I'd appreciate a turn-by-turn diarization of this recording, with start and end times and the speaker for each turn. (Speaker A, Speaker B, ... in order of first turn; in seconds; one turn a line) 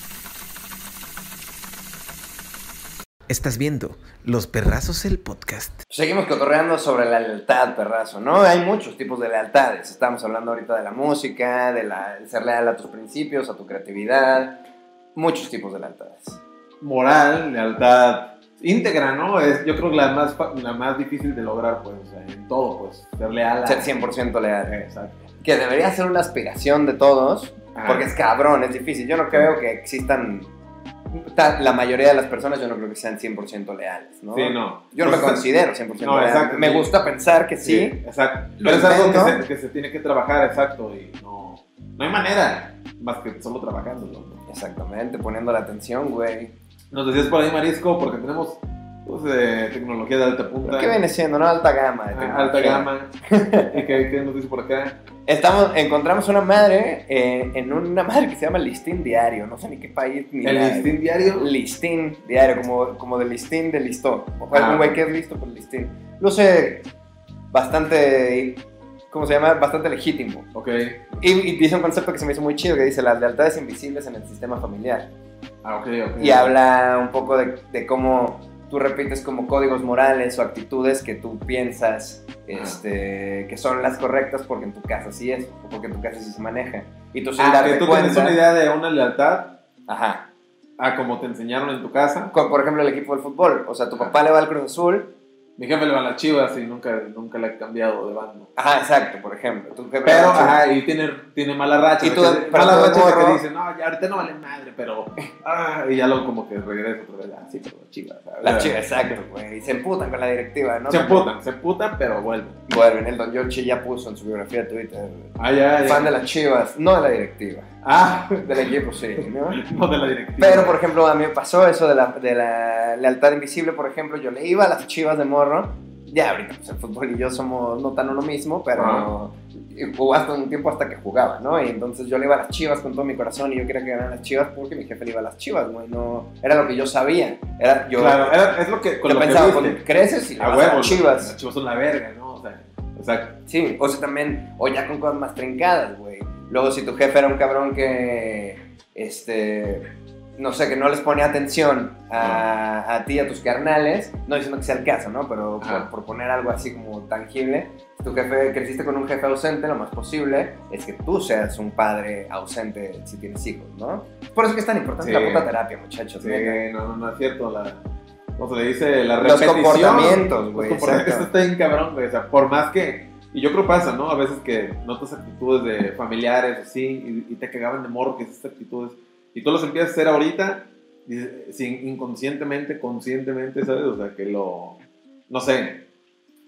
Speaker A: 3.3-5.8
Speaker B: 5.9-14.6
Speaker B: 15.1-16.4
Speaker C: 16.8-23.9
Speaker B: 23.6-24.7
Speaker C: 24.7-25.3
Speaker B: 25.4-30.5
Speaker C: 27.7-28.1
Speaker B: 31.1-38.0
Speaker C: 34.3-35.5
Speaker C: 36.0-36.9
Speaker C: 37.6-44.4
Speaker B: 38.6-39.4
Speaker B: 44.5-46.5
Speaker C: 46.9-51.0
Speaker B: 50.6-53.8
Speaker C: 52.1-55.0
Speaker B: 55.2-66.9
Speaker C: 60.4-61.5
Speaker C: 64.5-65.0
Speaker B: 67.5-70.5
Speaker C: 70.5-71.0
Speaker B: 71.2-75.1
Speaker C: 75.6-76.5
Speaker B: 76.2-88.4
Speaker C: 82.5-82.8
Speaker C: 87.4-89.6
Speaker B: 89.9-90.3
Speaker C: 90.8-92.3
Speaker B: 92.3-95.1
Speaker C: 95.6-98.5
Speaker B: 98.5-100.6
Speaker C: 100.0-108.9
Speaker B: 102.0-103.4
Speaker B: 108.4-111.3
Speaker C: 110.9-112.6
Speaker B: 112.7-117.7
Speaker C: 115.4-116.1
Speaker C: 117.8-120.8
Speaker B: 118.4-119.6
Speaker B: 120.4-138.4
Speaker C: 128.8-129.1
Speaker C: 138.0-139.8
Speaker B: 139.0-141.3
Speaker C: 140.4-143.4
Speaker B: 143.5-149.8
Speaker B: 150.4-166.6
Speaker C: 152.2-152.5
Speaker C: 155.6-155.9
Speaker C: 165.0-165.5
Speaker C: 166.2-167.8
Speaker C: 168.4-184.8
Speaker B: 169.2-171.3
Speaker C: 185.3-185.8